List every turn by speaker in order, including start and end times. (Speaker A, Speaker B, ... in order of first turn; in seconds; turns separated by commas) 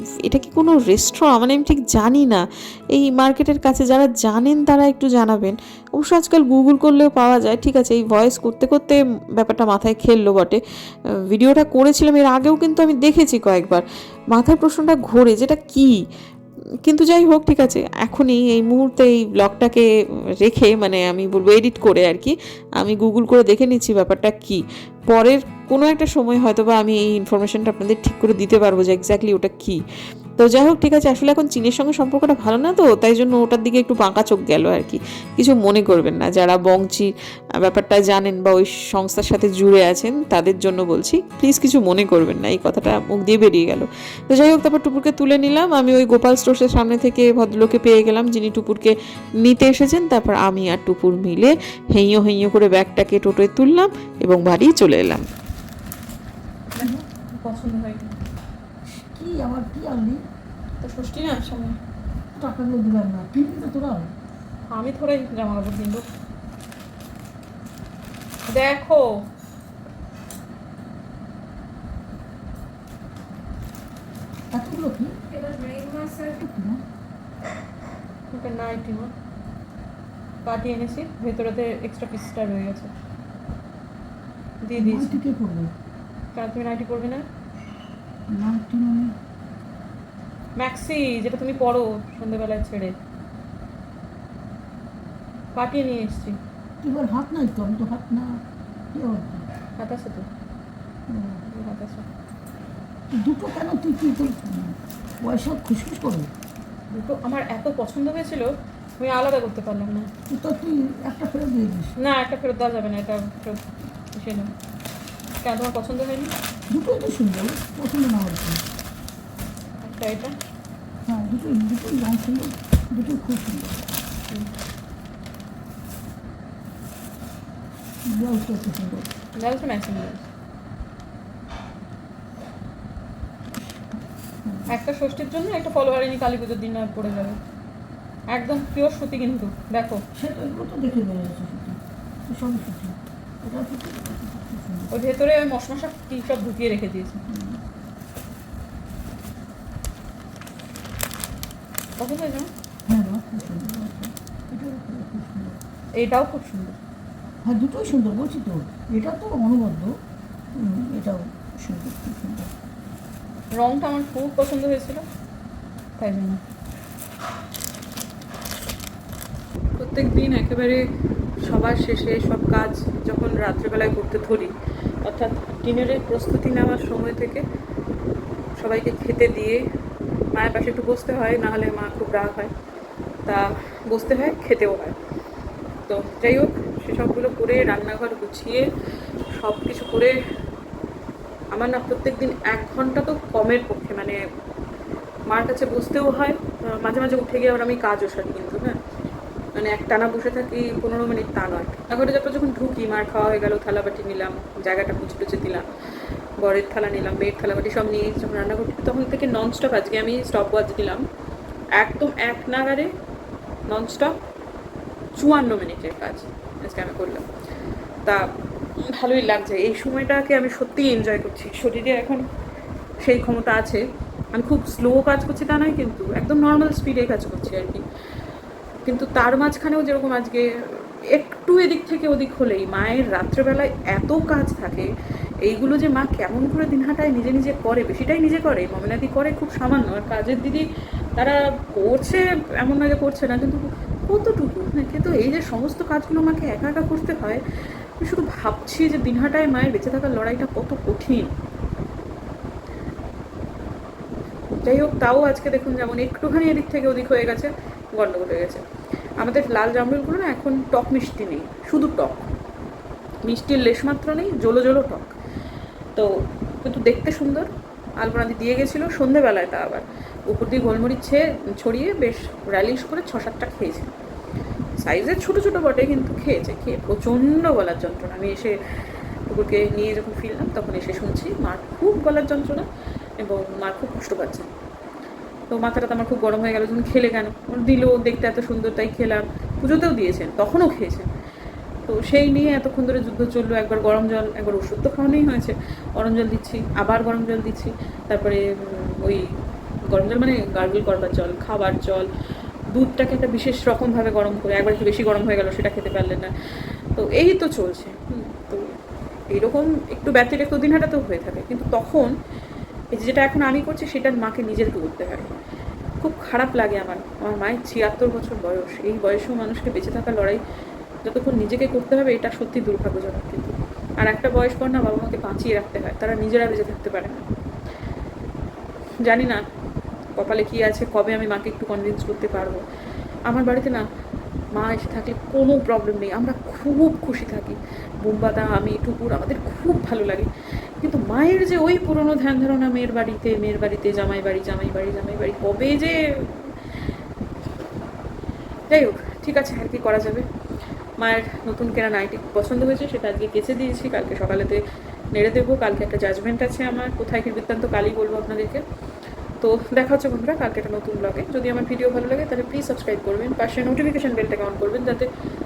Speaker A: 0.2-2.4, Speaker A: 2.9-10.6, Speaker A: 11.3-15.9, Speaker A: 16.8-19.9, Speaker A: 20.4-29.8, Speaker A: 30.4-37.1, Speaker A: 37.6-55.2, Speaker B: 56.7-58.2, Speaker C: 59.0-60.2, Speaker B: 60.8-61.8, Speaker C: 62.4-64.1, Speaker B: 64.7-66.0, Speaker B: 68.5-69.2, Speaker C: 74.5-75.3, Speaker C: 75.9-76.8, Speaker B: 78.3-79.1, Speaker B: 80.4-82.9, Speaker B: 84.6-85.2, Speaker C: 84.8-85.7, Speaker B: 86.3-87.2, Speaker C: 88.3-89.2, Speaker B: 90.6-93.0, Speaker B: 95.5-96.4, Speaker C: 96.8-98.4, Speaker C: 98.9-99.5, Speaker B: 99.8-100.3, Speaker C: 101.1-101.4, Speaker B: 101.5-102.0, Speaker C: 103.1-106.3, Speaker B: 106.9-110.1, Speaker C: 110.3-111.9, Speaker B: 112.0-114.5, Speaker B: 115.4-116.3, Speaker C: 116.7-118.6, Speaker B: 119.8-120.3, Speaker C: 121.0-123.8, Speaker C: 128.1-129.1, Speaker B: 129.4-130.2, Speaker C: 133.9-134.7, Speaker B: 134.7-137.4, Speaker B: 138.3-140.0, Speaker C: 140.1-144.9, Speaker B: 144.9-147.2, Speaker C: 147.3-147.6, Speaker B: 152.0-152.5, Speaker C: 152.9-155.6, Speaker B: 156.0-156.8, Speaker C: 157.4-160.0, Speaker C: 160.6-162.5, Speaker B: 163.5-165.0, Speaker B: 166.0-166.4, Speaker B: 169.8-170.8, Speaker B: 171.4-174.5, Speaker B: 175.0-177.4, Speaker B: 178.6-179.6, Speaker B: 180.3-182.5, Speaker B: 183.2-184.9, Speaker B: 185.9-188.7, Speaker B: 189.4-190.1, Speaker B: 191.5-194.2, Speaker B: 195.3-198.8, Speaker B: 199.6-205.6, Speaker B: 206.4-211.0, Speaker B: 211.8-212.9, Speaker B: 213.7-214.1, Speaker B: 215.2-217.2, Speaker B: 218.8-222.2, Speaker B: 223.0-223.8, Speaker B: 224.3-227.8, Speaker B: 228.8-230.5, Speaker B: 231.1-234.9, Speaker B: 235.4-247.4, Speaker B: 248.0-251.3, Speaker B: 254.6-258.6, Speaker B: 259.2-262.3, Speaker B: 263.2-265.1, Speaker B: 266.6-273.9, Speaker B: 274.8-278.6, Speaker B: 279.3-282.6, Speaker B: 283.2-284.5, Speaker B: 285.5-291.1, Speaker B: 291.9-299.2, Speaker B: 299.9-302.1, Speaker B: 302.7-306.3, Speaker B: 306.9-308.6, Speaker B: 309.3-312.1, Speaker B: 312.9-315.3, Speaker B: 316.0-320.4, Speaker B: 321.0-327.2, Speaker B: 329.0-329.4, Speaker B: 330.1-332.6, Speaker B: 333.3-333.8, Speaker B: 334.5-340.3, Speaker B: 340.8-346.5, Speaker B: 348.7-350.2, Speaker B: 351.0-354.6, Speaker B: 355.1-358.6, Speaker B: 359.4-365.1